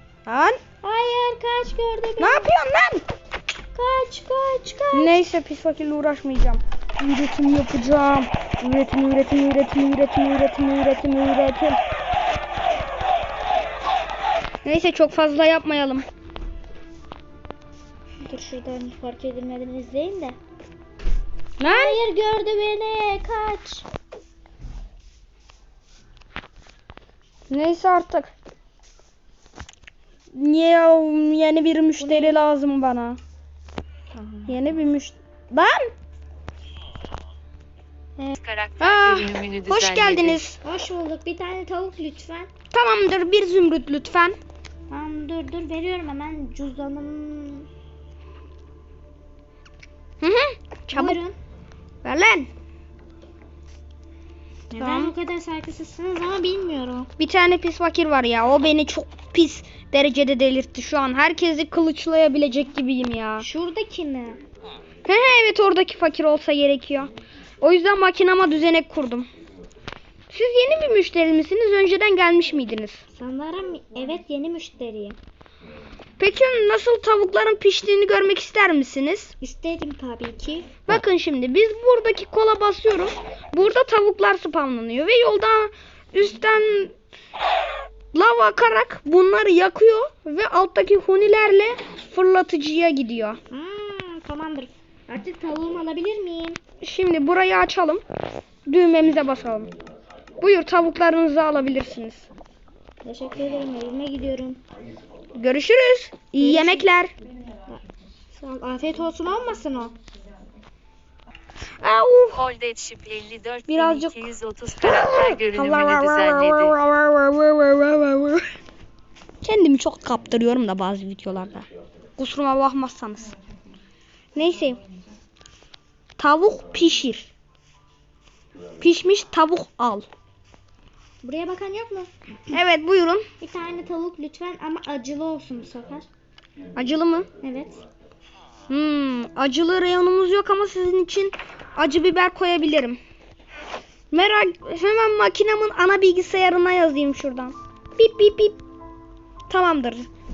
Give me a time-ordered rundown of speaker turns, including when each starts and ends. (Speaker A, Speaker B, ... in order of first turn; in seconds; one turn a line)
Speaker A: 0.2-0.6
Speaker B: 0.8-2.5
Speaker A: 2.2-3.0
Speaker B: 3.7-5.2
Speaker A: 4.9-11.8
Speaker A: 14.6-16.1
Speaker B: 18.2-20.4
Speaker A: 21.6-22.0
Speaker B: 21.6-23.9
Speaker A: 27.5-28.3
Speaker A: 30.3-33.2
Speaker B: 32.0-32.4
Speaker B: 34.1-34.6
Speaker A: 34.5-35.9
Speaker C: 38.4-40.4
Speaker A: 38.8-40.6
Speaker B: 40.6-42.5
Speaker A: 42.7-44.4
Speaker B: 44.9-47.7
Speaker A: 50.2-51.2
Speaker B: 50.9-51.4
Speaker A: 52.0-52.5
Speaker B: 54.7-57.1
Speaker A: 54.7-55.1
Speaker A: 57.2-63.5
Speaker B: 63.4-64.4
Speaker A: 65.0-69.3
Speaker A: 70.3-73.0
Speaker B: 73.1-75.2
Speaker A: 76.2-79.3
Speaker B: 79.4-80.8
Speaker A: 80.9-86.9
Speaker A: 88.1-93.4
Speaker B: 93.5-96.6
Speaker A: 96.8-98.0
Speaker A: 98.7-99.7
Speaker A: 100.4-102.3
Speaker B: 103.0-104.6
Speaker A: 105.3-107.1
Speaker B: 106.4-106.9
Speaker B: 107.7-109.9
Speaker A: 111.8-112.4
Speaker C: 112.3-116.7
Speaker A: 113.7-114.2
Speaker A: 114.8-118.5
Speaker A: 119.4-123.3
Speaker A: 124.3-124.8
Speaker A: 126.2-127.3
Speaker A: 128.8-130.1
Speaker B: 131.2-132.1
Speaker A: 132.5-133.2
Speaker B: 133.4-136.1
Speaker A: 136.8-137.3
Speaker B: 137.4-137.8
Speaker A: 138.7-143.0
Speaker A: 144.1-148.6
Speaker A: 149.5-150.1